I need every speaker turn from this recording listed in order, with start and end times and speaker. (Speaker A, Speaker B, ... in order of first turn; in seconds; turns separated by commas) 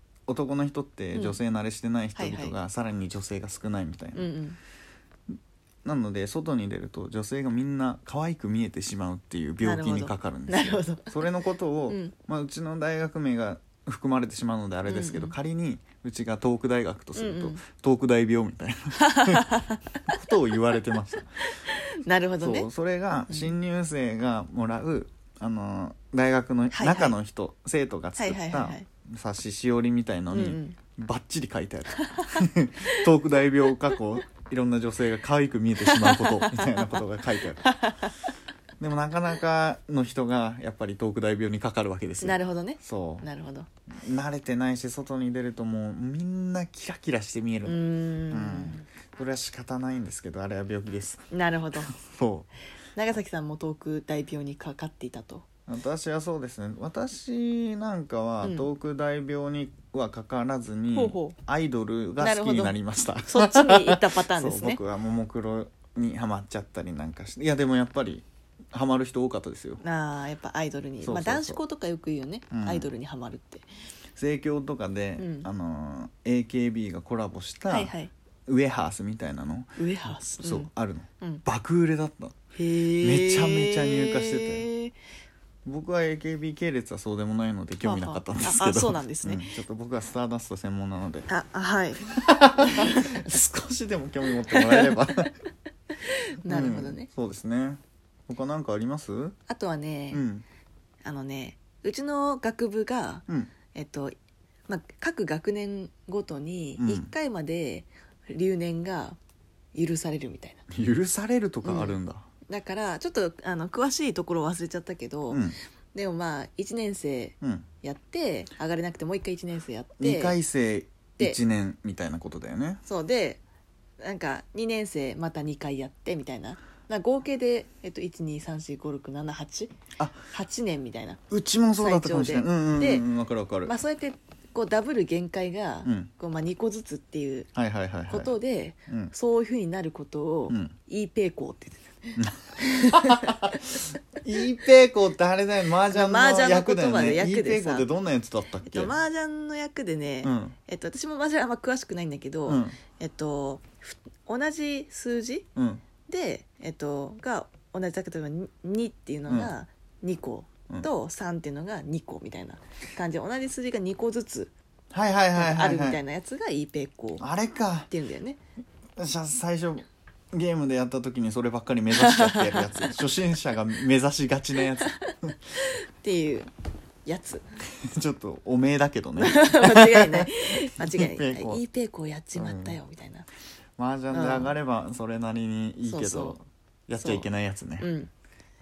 Speaker A: 0.3-4.3, Speaker B: 1.1-1.4, Speaker B: 2.1-2.5, Speaker B: 4.1-4.6, Speaker A: 5.8-19.5, Speaker B: 9.6-11.2, Speaker B: 11.9-12.1, Speaker B: 14.8-15.3, Speaker B: 17.2-17.6, Speaker B: 19.0-19.8, Speaker A: 20.1-21.4, Speaker B: 21.5-22.7, Speaker A: 22.4-37.6, Speaker B: 26.7-27.2, Speaker B: 28.2-28.9, Speaker B: 30.3-30.8, Speaker B: 31.9-33.1, Speaker B: 35.8-37.0, Speaker B: 37.6-38.1, Speaker A: 38.8-43.3, Speaker B: 42.2-43.7, Speaker A: 44.0-52.5, Speaker B: 47.6-48.8, Speaker B: 51.3-51.9, Speaker B: 53.0-55.5, Speaker A: 55.7-69.8, Speaker B: 58.4-58.7, Speaker B: 60.9-61.4, Speaker B: 62.2-62.8, Speaker B: 63.3-64.8, Speaker B: 69.8-73.7, Speaker A: 71.0-71.6, Speaker A: 72.5-72.9, Speaker A: 74.2-77.9, Speaker B: 75.2-75.5, Speaker B: 77.7-78.1, Speaker A: 78.5-82.4, Speaker B: 79.8-80.7, Speaker B: 82.5-84.9, Speaker A: 83.0-84.7, Speaker A: 85.7-91.3, Speaker B: 87.8-89.5, Speaker B: 91.3-92.0, Speaker A: 92.0-95.3, Speaker B: 92.6-93.1, Speaker B: 94.5-94.9, Speaker B: 96.1-97.1, Speaker A: 96.4-99.3, Speaker B: 99.5-100.2, Speaker A: 100.1-100.4, Speaker B: 101.0-104.2, Speaker B: 104.7-109.2, Speaker A: 106.8-107.1, Speaker B: 109.8-110.6, Speaker A: 110.7-112.3, Speaker B: 111.6-112.0, Speaker B: 112.5-120.4, Speaker A: 115.3-115.6, Speaker A: 117.4-117.7, Speaker A: 120.0-122.8, Speaker B: 122.8-123.4, Speaker B: 124.0-129.7, Speaker A: 130.0-130.2, Speaker B: 130.3-131.2, Speaker A: 131.3-133.7, Speaker B: 131.8-133.1, Speaker B: 133.7-137.5, Speaker A: 135.8-136.1, Speaker A: 137.6-138.3, Speaker B: 138.1-143.6, Speaker A: 138.9-139.1, Speaker A: 140.5-140.7, Speaker A: 142.2-148.9, Speaker B: 145.9-147.8, Speaker B: 148.7-155.4, Speaker A: 150.2-150.6, Speaker A: 152.4-152.8, Speaker A: 155.6-155.8, Speaker B: 156.1-164.5, Speaker A: 164.9-166.0, Speaker B: 165.3-167.2, Speaker A: 167.2-167.9, Speaker B: 167.9-168.4, Speaker A: 169.0-175.3, Speaker B: 171.9-172.9, Speaker B: 175.5-176.5, Speaker B: 177.1-177.4, Speaker A: 177.8-181.6, Speaker B: 179.2-183.3, Speaker A: 182.3-182.8, Speaker A: 183.8-187.9, Speaker B: 184.1-184.6, Speaker B: 185.8-186.4, Speaker B: 187.0-188.1